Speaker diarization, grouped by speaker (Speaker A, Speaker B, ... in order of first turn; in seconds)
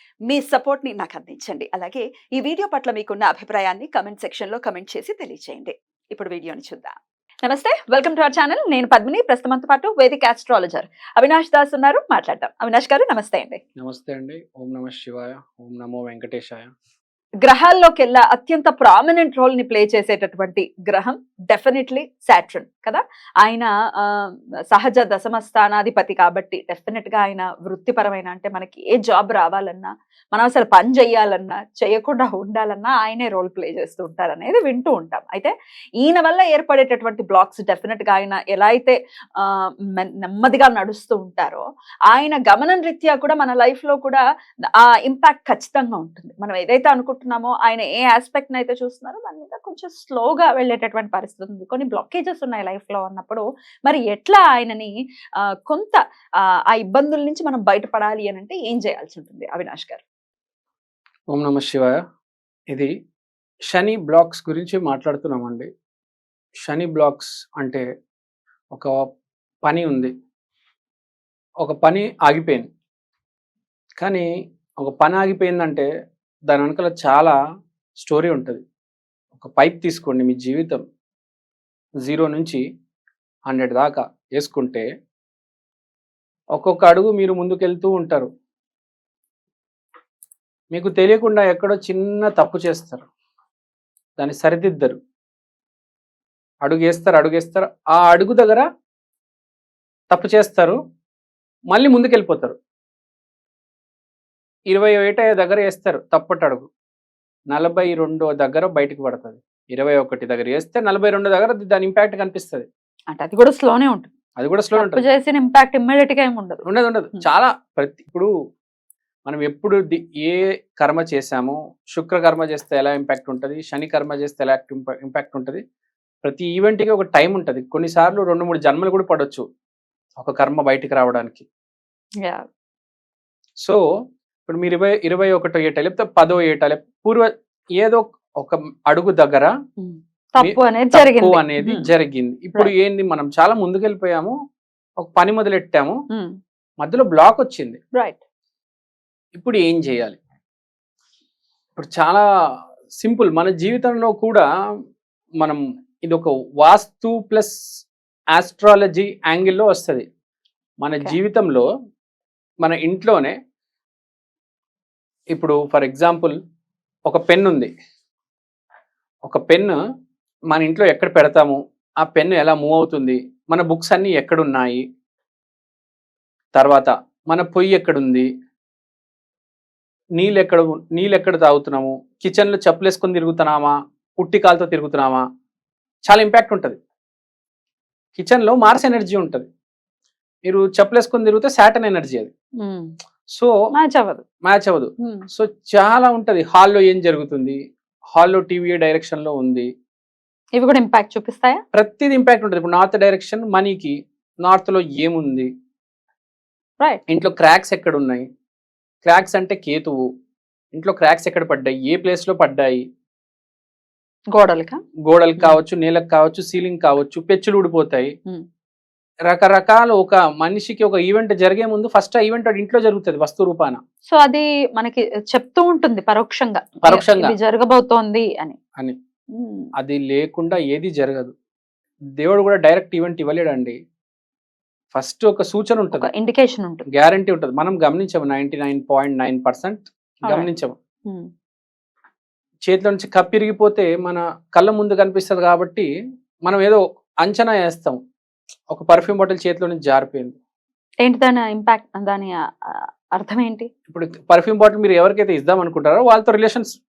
Speaker A: 0.3-6.9, 7.4-13.6, 17.4-44.2, 44.8-54.9, 55.7-56.0, 56.7-60.0, 113.1-114.1, 114.7-116.6, 139.8-141.4, 192.6-192.9, 193.7-194.2, 200.6-201.6, 214.3-214.8, 224.1-228.6, 229.3-229.7, 235.9-236.8, 251.0-253.7
Speaker B: 13.8-16.7, 61.3-61.9, 63.7-65.7, 66.6-67.8, 69.7-70.1, 71.6-72.7, 74.0-74.3, 74.8-75.9, 76.5-77.3, 78.0-78.6, 79.3-80.8, 82.0-82.6, 83.5-84.9, 86.5-88.3, 90.7-93.1, 94.2-95.0, 96.6-98.6, 100.1-100.8, 101.7-102.5, 104.7-106.7, 107.5-112.7, 114.4-115.0, 116.6-118.3, 119.3-125.6, 126.2-129.4, 130.2-131.5, 134.4-139.5, 140.4-144.3, 145.0-146.0, 146.8-147.8, 149.3-150.2, 151.8-152.2, 153.0-154.4, 155.4-157.5, 158.3-160.0, 160.8-161.7, 162.6-163.3, 165.3-166.4, 167.1-167.7, 169.3-169.8, 170.5-174.8, 176.5-178.3, 180.2-185.2, 186.1-186.8, 188.1-189.5, 190.4-192.3, 194.4-197.6, 198.1-199.7, 201.7-205.5, 207.1-208.2, 209.0-210.1, 210.7-212.8, 215.0-218.1, 219.3-223.8, 226.8-227.3, 229.8-231.3, 232.2-233.8, 234.9-236.1, 236.9-240.7, 242.7-245.9, 246.5-248.0, 248.7-250.3, 253.9-256.7